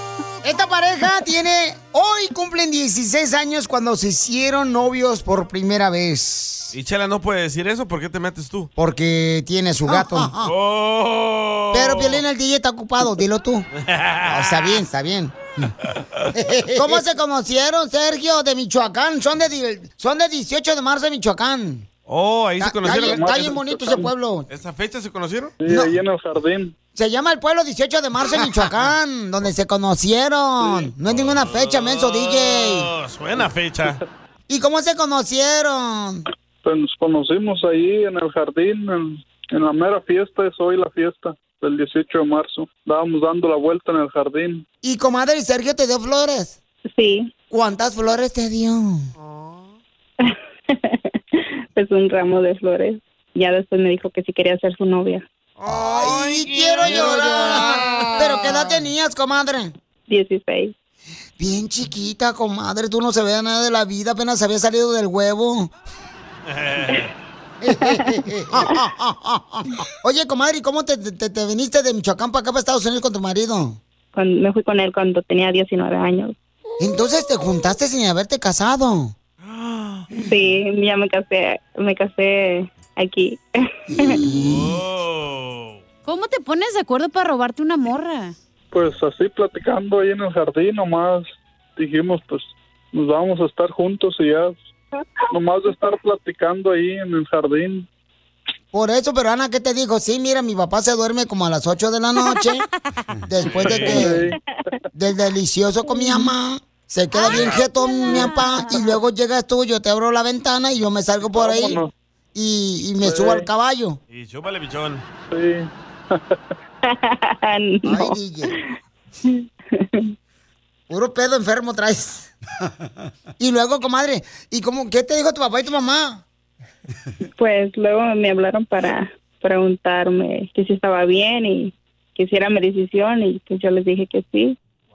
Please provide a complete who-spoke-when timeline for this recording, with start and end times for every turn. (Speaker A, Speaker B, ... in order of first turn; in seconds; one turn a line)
Speaker A: 0.4-6.7
Speaker B: 6.7-8.7
Speaker A: 8.8-10.5
Speaker B: 9.9-12.2
Speaker A: 11.7-13.7
Speaker B: 13.8-14.8
Speaker A: 14.3-15.7
Speaker A: 16.3-21.9
Speaker B: 22.1-23.6
Speaker A: 22.6-24.5
Speaker C: 22.8-24.1
Speaker B: 24.5-25.6
Speaker C: 25.6-26.7
Speaker A: 25.7-26.0
Speaker A: 26.9-32.9
Speaker B: 31.1-34.0
Speaker A: 34.5-36.2
Speaker C: 36.6-44.6
Speaker A: 44.8-46.6
Speaker D: 46.9-47.3
Speaker A: 47.5-49.1
Speaker B: 49.3-49.6
Speaker D: 50.2-55.2
Speaker B: 55.6-58.2
Speaker A: 55.6-59.7
Speaker D: 60.1-60.7
Speaker A: 61.4-65.7
Speaker B: 66.5-67.1
Speaker A: 67.6-73.8
Speaker D: 74.1-76.3
Speaker A: 76.8-79.2
Speaker B: 79.5-80.0
Speaker D: 80.2-84.2
Speaker A: 84.0-84.8
Speaker B: 84.2-85.8
Speaker E: 86.0-88.3
Speaker C: 88.7-94.6
Speaker D: 95.0-95.2
Speaker C: 95.3-97.9
Speaker A: 98.7-102.7
Speaker A: 103.3-104.2
Speaker B: 103.4-104.1
Speaker C: 103.7-104.3
Speaker A: 104.9-111.8
Speaker E: 107.1-108.8
Speaker C: 111.3-111.9
Speaker A: 112.3-114.0
Speaker C: 113.0-113.5
Speaker B: 114.1-115.0
Speaker C: 115.3-116.2
Speaker D: 116.8-120.1
Speaker A: 117.8-118.6
Speaker A: 120.9-122.3
Speaker A: 123.4-126.2
Speaker D: 127.4-134.6